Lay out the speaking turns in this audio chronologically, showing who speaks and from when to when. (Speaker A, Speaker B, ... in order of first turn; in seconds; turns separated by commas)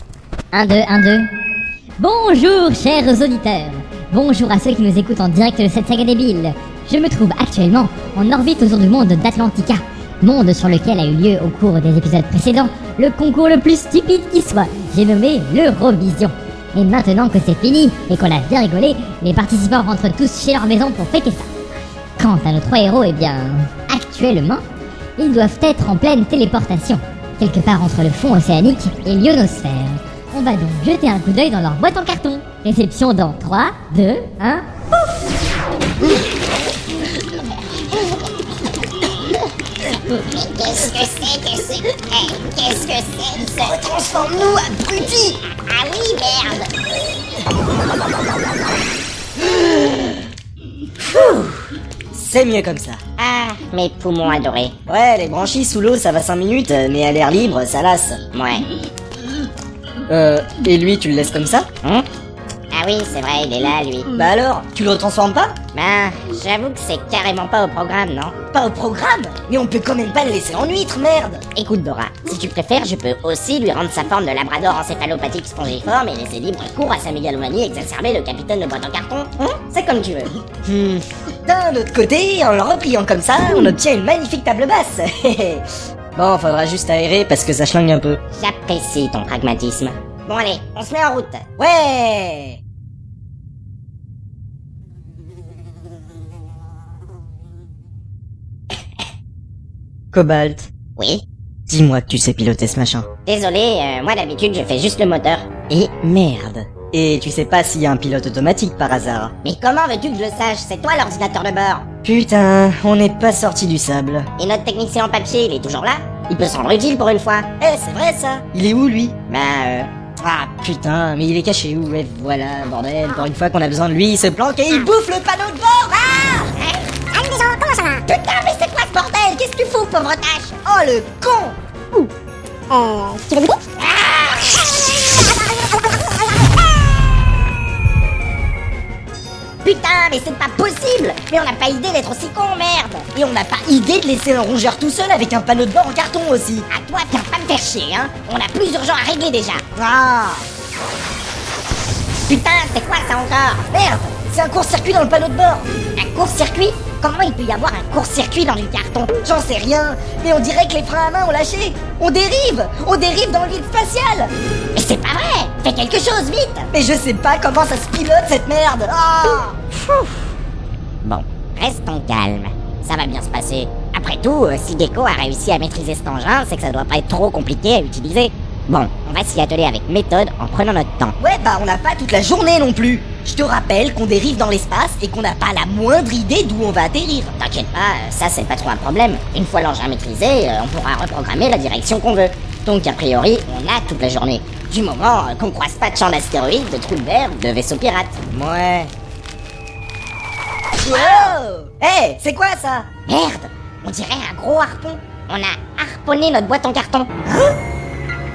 Speaker A: 0.5-1.3, Speaker A: 2.0-21.5, Speaker A: 22.2-24.6, Speaker A: 25.2-34.6, Speaker B: 40.1-43.8, Speaker C: 43.6-45.4, Speaker B: 45.6-46.7, Speaker C: 52.1-53.0, Speaker B: 53.2-54.8, Speaker C: 54.9-58.2, Speaker B: 58.3-58.7, Speaker C: 60.1-61.7, Speaker B: 62.7-64.1, Speaker C: 64.1-65.6, Speaker B: 65.7-68.4, Speaker C: 68.5-71.4, Speaker B: 71.5-80.3, Speaker C: 80.6-88.2, Speaker B: 88.4-91.5, Speaker C: 91.6-92.6, Speaker C: 100.1-100.7, Speaker B: 101.0-101.2, Speaker C: 101.7-103.1, Speaker B: 103.3-105.9, Speaker C: 105.9-109.3, Speaker B: 109.4-111.9, Speaker C: 112.0-114.3, Speaker B: 114.4-117.5, Speaker C: 117.6-119.2, Speaker B: 119.3-119.9, Speaker C: 120.2-126.2, Speaker B: 126.1-130.5, Speaker C: 130.6-131.6, Speaker B: 132.7-136.5, Speaker B: 139.6-143.1, Speaker C: 143.1-146.7, Speaker B: 146.7-149.6, Speaker C: 149.8-150.4, Speaker B: 152.3-153.7, Speaker C: 153.7-155.7, Speaker B: 155.9-159.2, Speaker C: 159.2-164.3, Speaker B: 164.7-166.7, Speaker C: 166.7-169.6, Speaker B: 171.0-181.1, Speaker C: 181.2-187.3, Speaker B: 187.4-198.9, Speaker C: 200.8-202.9, Speaker B: 200.8-201.3, Speaker B: 203.1-207.1, Speaker C: 207.2-207.6